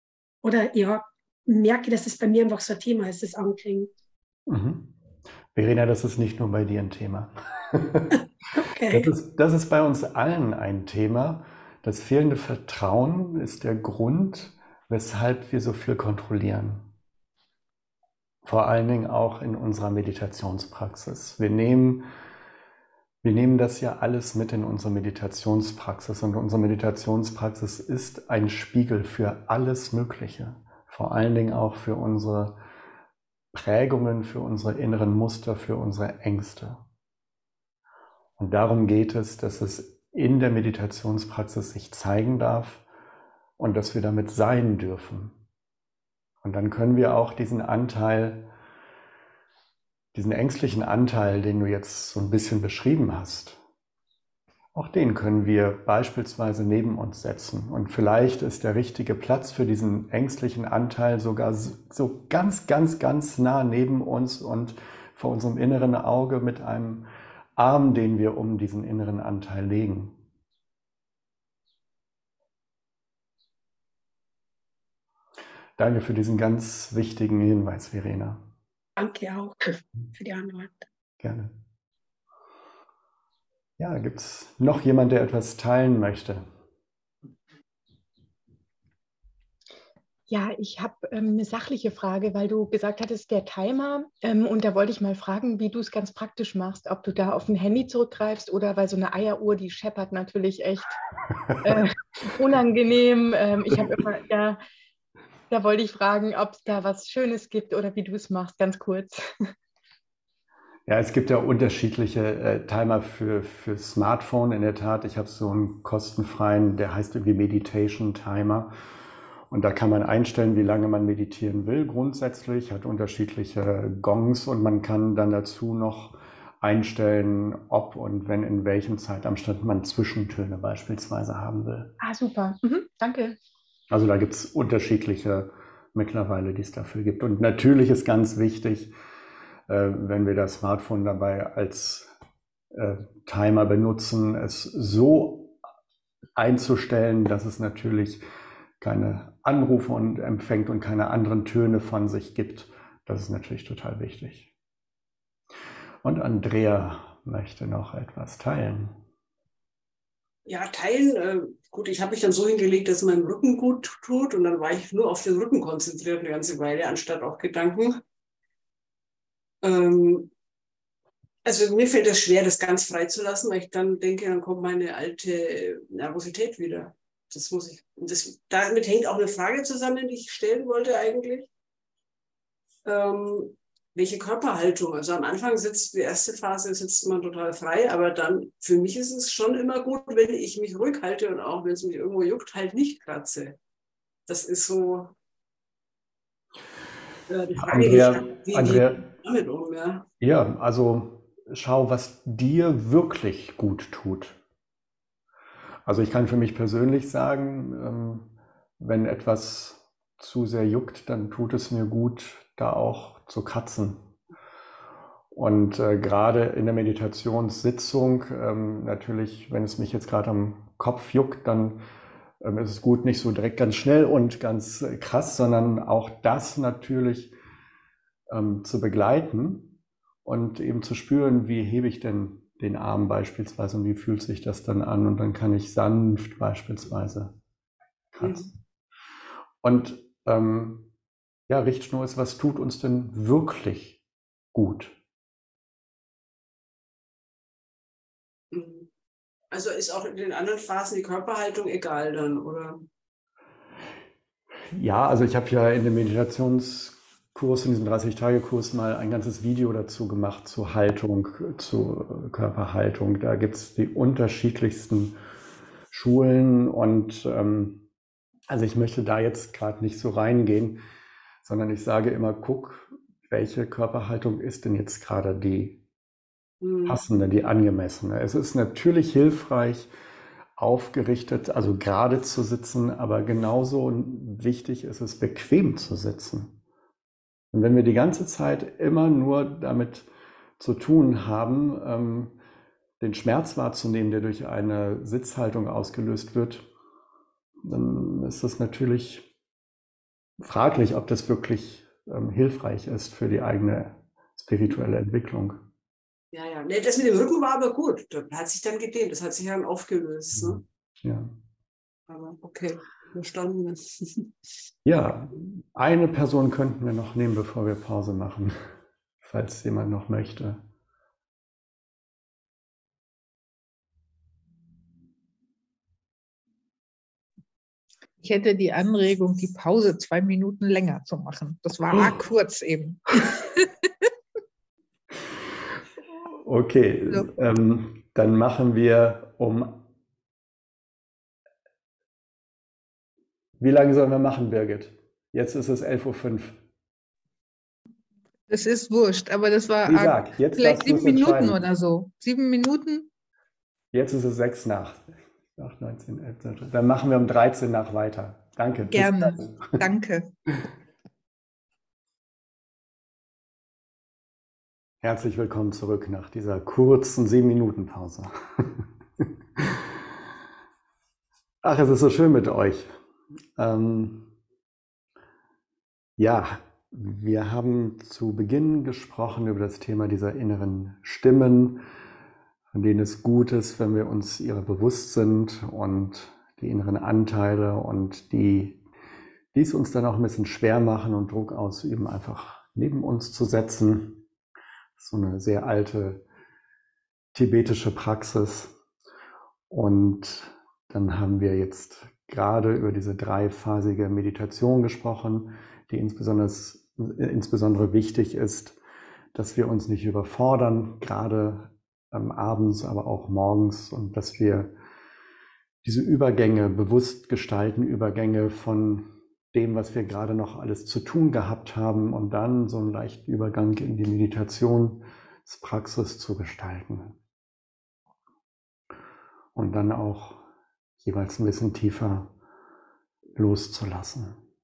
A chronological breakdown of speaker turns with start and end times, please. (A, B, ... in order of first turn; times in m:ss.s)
0:00.4-0:03.9 A
0:04.5-0:04.9 B
0:05.5-0:08.1 B
0:08.6-0:09.1 A
0:08.9-0:16.8 B
0:18.4-0:22.0 B
0:23.2-0:32.6 B
0:33.5-0:36.8 B
0:38.4-0:42.8 B
0:43.6-0:45.3 B
0:46.4-0:48.5 B
0:50.1-0:53.6 B
0:54.7-1:10.2 B
1:15.8-1:18.4 B
1:19.0-1:20.8 A
1:21.2-1:21.5 B
1:23.8-1:26.5 B
1:30.3-1:41.0 C
1:41.6-1:44.6 C
1:45.5-1:49.2 C
1:50.9-1:58.7 B
1:59.5-2:11.9 B
2:12.0-2:13.4 C
2:13.9-2:18.9 B
2:19.7-2:22.1 B
2:22.7-2:25.6 B
2:26.4-2:28.2 B
2:28.8-2:34.5 B
2:36.0-2:38.9 B
2:40.4-2:48.0 D
2:49.6-2:50.3 D
2:51.4-3:01.5 D
3:02.8-3:13.6 D
3:14.3-3:15.1 D
3:17.3-3:20.0 D
3:17.6-3:19.0 B
3:20.2-3:24.4 B
3:25.8-3:34.0 B
3:35.3-3:41.8 B
3:42.4-3:47.3 B
3:48.3-3:57.3 B
3:58.1-3:58.5 B
3:58.2-3:58.5 D
3:59.6-4:00.9 B
4:01.5-4:04.0 B
4:04.5-4:05.0 B
4:08.5-4:08.9 D
4:09.5-4:12.8 D
4:14.7-4:25.2 B
4:25.9-4:27.8 B
4:28.5-4:30.8 B
4:31.4-4:35.8 B
4:36.6-4:37.0 D
4:36.8-4:39.9 B
4:40.6-4:46.5 B
4:47.5-4:50.1 B
4:50.6-4:52.4 B
4:53.0-4:56.7 B
4:57.6-4:59.3 B
5:00.4-5:05.6 B
5:06.3-5:10.6 D
5:10.4-5:11.3 B
5:12.1-5:14.3 D
5:14.8-5:18.6 B
5:19.2-5:20.6 B
5:28.2-5:33.5 E
5:36.4-5:39.8 B
5:43.6-5:46.6 B
5:48.5-5:53.1 E
5:49.9-5:51.6 B
5:53.9-5:59.8 B
5:58.9-6:00.3 E
6:05.0-6:09.9 B
6:11.6-6:12.9 B
6:13.6-6:14.3 B
6:16.2-6:21.8 B
6:22.7-6:28.8 B
6:29.5-6:34.2 B
6:35.0-6:36.2 B
6:37.3-6:38.7 B
6:39.7-6:48.8 B
6:49.3-6:54.7 B
6:55.8-7:07.2 B
7:09.5-7:10.4 B
7:11.0-7:12.3 B
7:13.4-7:14.4 B